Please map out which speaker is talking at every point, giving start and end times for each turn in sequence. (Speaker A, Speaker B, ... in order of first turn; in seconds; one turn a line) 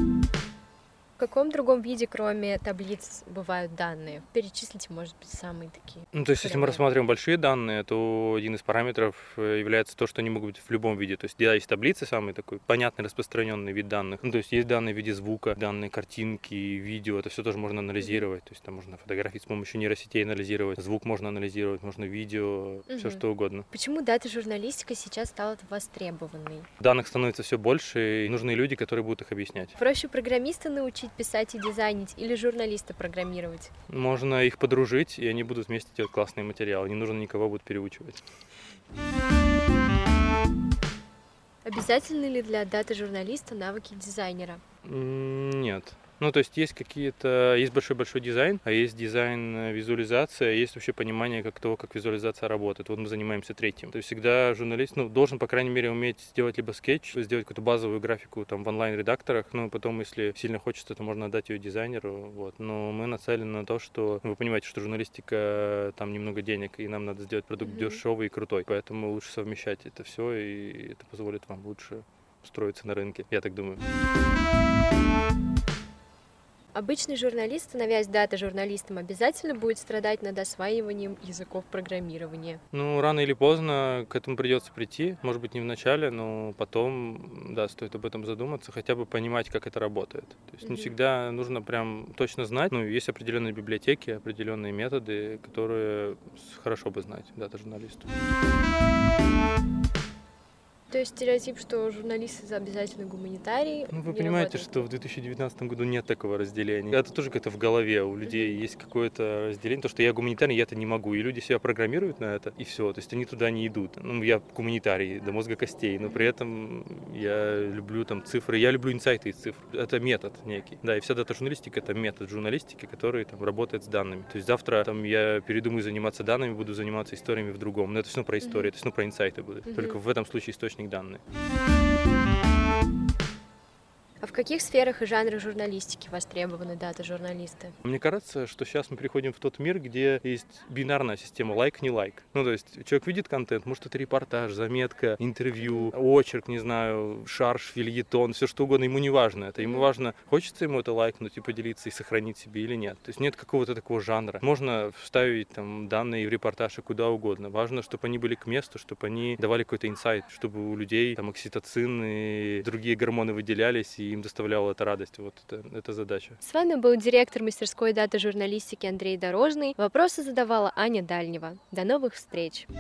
Speaker A: 1.2-6.8
Speaker B: 6.1-23.7
Speaker A: 18.0-18.2
Speaker A: 22.9-26.7
Speaker B: 26.8-29.8
Speaker A: 29.8-33.7
Speaker B: 33.9-38.2
Speaker A: 41.6-44.6
Speaker B: 44.9-73.8
Speaker A: 67.6-68.0
Speaker A: 76.7-82.6
Speaker B: 82.7-98.1
Speaker A: 90.6-90.9
Speaker A: 100.9-104.9
Speaker B: 103.9-131.2
Speaker A: 108.2-108.6
Speaker A: 116.0-116.3
Speaker A: 128.4-128.7
Speaker A: 129.7-130.0
Speaker A: 134.2-137.7
Speaker B: 137.8-166.4
Speaker A: 145.6-145.9
Speaker A: 149.6-149.9
Speaker A: 166.4-172.7